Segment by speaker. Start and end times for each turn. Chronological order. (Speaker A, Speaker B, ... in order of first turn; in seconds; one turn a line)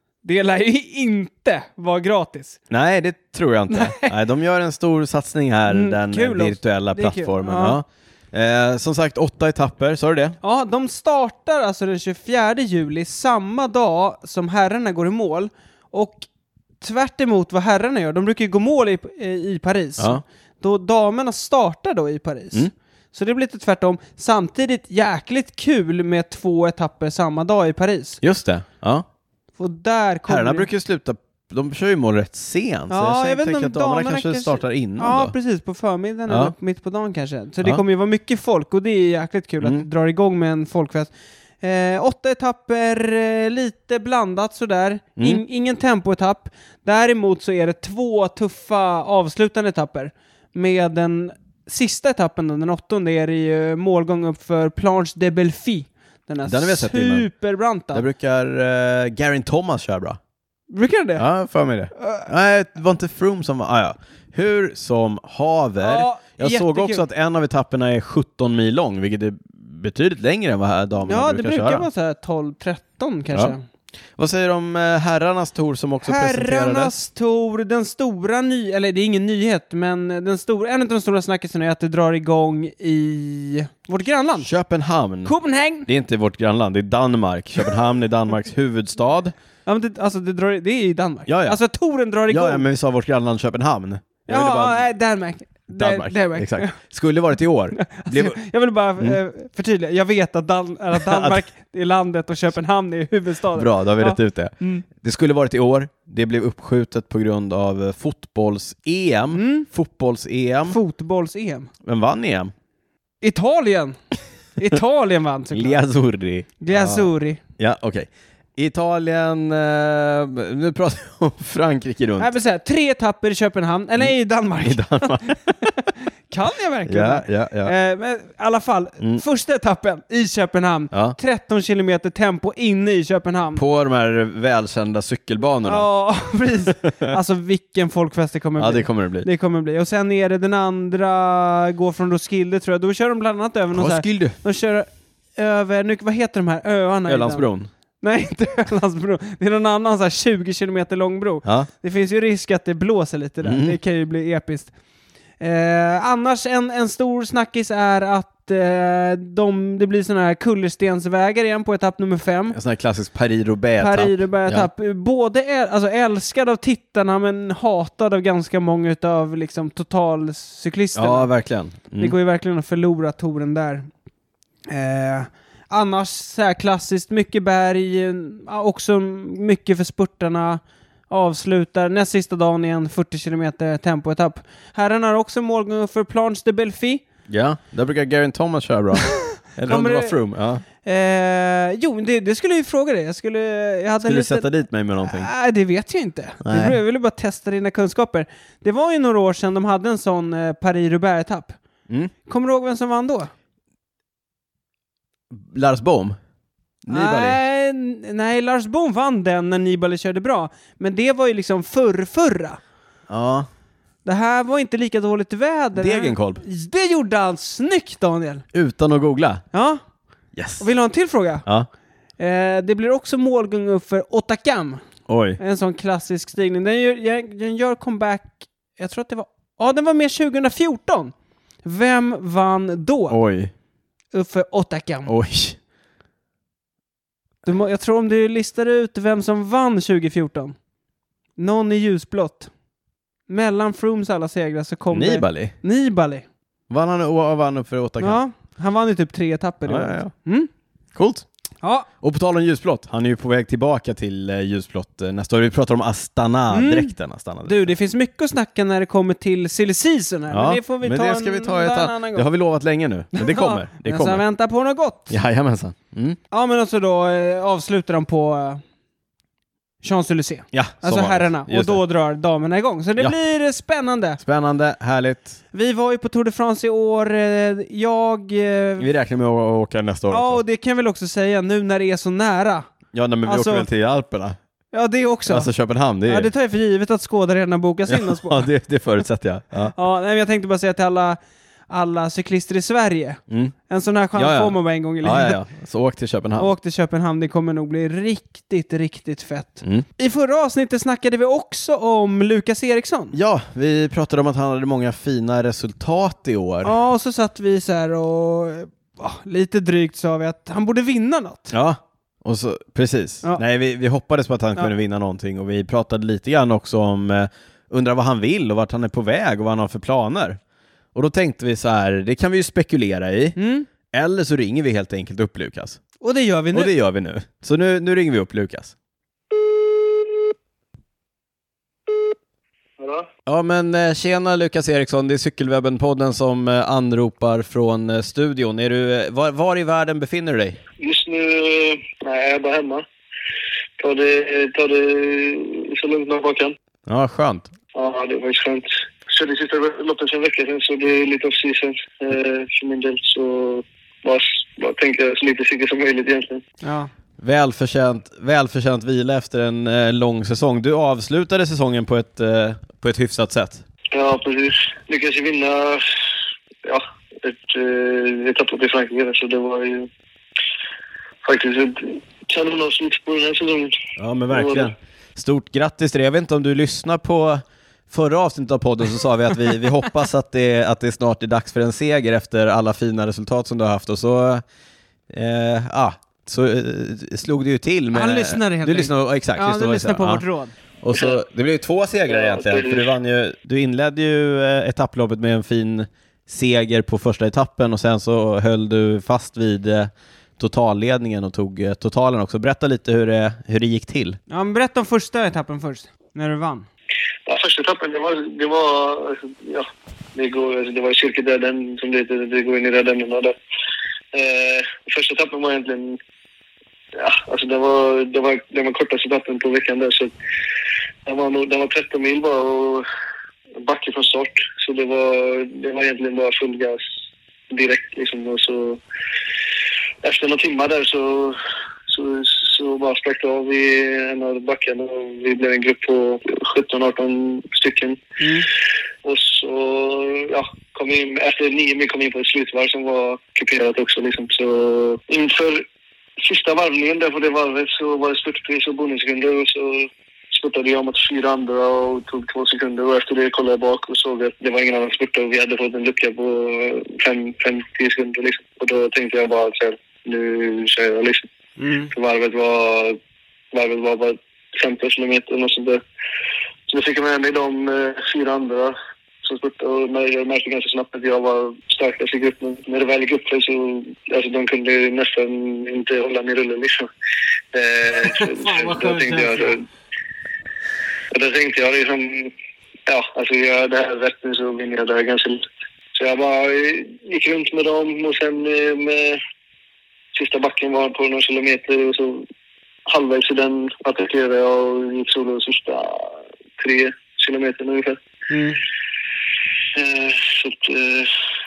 Speaker A: 0.2-2.6
Speaker B: 2.7-10.4
Speaker A: 3.7-4.1
Speaker A: 5.7-7.8
Speaker A: 10.4-16.3
Speaker A: 16.8-28.2
Speaker B: 20.0-20.2
Speaker B: 28.2-29.0
Speaker A: 29.6-30.7
Speaker B: 30.3-35.3
Speaker A: 32.9-58.0
Speaker B: 36.3-36.5
Speaker B: 56.4-57.3
Speaker B: 57.9-60.2
Speaker A: 60.7-61.2
Speaker B: 61.2-71.8
Speaker A: 62.0-62.2
Speaker A: 65.8-67.0
Speaker A: 71.0-73.6
Speaker B: 74.2-76.9
Speaker A: 76.0-84.5
Speaker B: 84.4-85.3
Speaker A: 85.2-85.9
Speaker B: 85.8-89.3
Speaker A: 89.7-92.6
Speaker B: 91.3-91.6
Speaker B: 92.3-94.8
Speaker A: 94.3-96.8
Speaker B: 95.8-98.4
Speaker A: 97.8-104.8
Speaker B: 100.9-101.4
Speaker B: 103.5-110.8
Speaker A: 109.3-109.7
Speaker A: 110.6-111.7
Speaker B: 111.8-112.5
Speaker A: 113.2-114.0
Speaker A: 114.6-115.8
Speaker B: 115.5-122.3
Speaker A: 116.6-117.4
Speaker A: 122.2-133.6
Speaker B: 124.6-125.7
Speaker B: 126.9-127.7
Speaker B: 130.9-131.2
Speaker B: 133.5-135.9
Speaker A: 135.7-147.5
Speaker B: 136.8-137.1
Speaker B: 138.6-139.3
Speaker B: 143.7-144.4
Speaker B: 147.1-147.7
Speaker A: 148.0-154.7
Speaker B: 153.4-153.8
Speaker A: 155.4-162.6
Speaker B: 162.5-164.7
Speaker A: 163.8-171.3
Speaker B: 170.9-172.1
Speaker A: 172.0-173.9
Speaker A: 174.7-187.0
Speaker B: 187.3-190.6
Speaker A: 189.1-190.2
Speaker A: 190.8-194.5
Speaker B: 194.0-195.3
Speaker A: 195.0-201.6
Speaker B: 196.4-196.8
Speaker A: 202.2-203.3
Speaker B: 205.3-206.2
Speaker B: 206.8-207.4
Speaker A: 206.9-212.6
Speaker B: 213.1-213.5
Speaker A: 214.0-218.4
Speaker B: 215.8-216.4
Speaker B: 218.5-219.4
Speaker A: 219.5-219.8
Speaker B: 220.3-220.7
Speaker A: 220.6-221.4
Speaker A: 222.2-224.8
Speaker B: 225.1-225.4
Speaker A: 225.4-231.1
Speaker A: 231.6-233.2
Speaker B: 233.1-233.5
Speaker A: 234.1-235.1
Speaker B: 235.1-235.6
Speaker A: 237.4-240.6
Speaker A: 241.4-242.5
Speaker A: 243.3-246.2
Speaker B: 244.9-245.5
Speaker B: 246.7-248.2
Speaker A: 248.0-250.5
Speaker B: 249.7-250.1
Speaker B: 250.9-251.2
Speaker A: 251.6-251.9
Speaker B: 252.0-257.7
Speaker A: 256.5-256.9
Speaker A: 257.5-262.2
Speaker B: 260.3-264.2
Speaker A: 263.1-265.1
Speaker B: 265.1-266.2
Speaker A: 266.3-268.6
Speaker A: 269.8-274.2
Speaker B: 270.5-271.8
Speaker B: 274.2-275.4
Speaker A: 275.5-278.9
Speaker B: 278.8-280.4
Speaker A: 280.1-282.7
Speaker B: 282.9-284.4
Speaker A: 283.2-283.7
Speaker A: 284.7-285.5
Speaker B: 285.3-286.3
Speaker A: 286.1-288.5
Speaker B: 287.9-289.7
Speaker A: 289.7-295.4
Speaker B: 293.3-293.5
Speaker B: 294.1-296.5
Speaker A: 296.4-303.1
Speaker B: 303.1-306.7
Speaker A: 306.6-311.5
Speaker B: 311.5-320.4
Speaker B: 320.9-323.4
Speaker A: 323.4-323.7
Speaker B: 323.9-325.8
Speaker A: 326.0-326.7
Speaker B: 326.5-328.7
Speaker C: 332.8-333.1
Speaker B: 333.3-340.6
Speaker C: 340.8-342.9
Speaker C: 343.8-346.5
Speaker B: 346.9-347.5
Speaker C: 347.7-356.4
Speaker A: 356.6-356.9
Speaker B: 357.2-363.6
Speaker C: 363.9-365.9
Speaker C: 366.6-369.9
Speaker C: 371.2-373.8
Speaker B: 374.0-384.4
Speaker C: 374.3-374.7
Speaker B: 385.1-390.2
Speaker A: 387.9-390.5
Speaker B: 390.8-404.2
Speaker C: 392.1-392.9
Speaker A: 404.3-406.7
Speaker C: 407.2-413.4
Speaker C: 414.1-416.0
Speaker C: 416.9-420.1
Speaker C: 421.1-422.9
Speaker C: 423.6-426.8
Speaker C: 427.5-428.8
Speaker C: 430.0-438.0
Speaker A: 438.2-438.5
Speaker C: 439.0-445.6
Speaker C: 446.2-461.3
Speaker A: 461.6-461.9
Speaker C: 461.9-463.0
Speaker C: 463.5-465.8
Speaker C: 466.7-476.9
Speaker C: 477.5-479.6
Speaker A: 478.0-479.5
Speaker C: 481.1-482.3
Speaker C: 482.9-489.2
Speaker C: 490.1-492.2
Speaker C: 492.9-498.0
Speaker A: 498.3-498.6
Speaker C: 499.7-501.1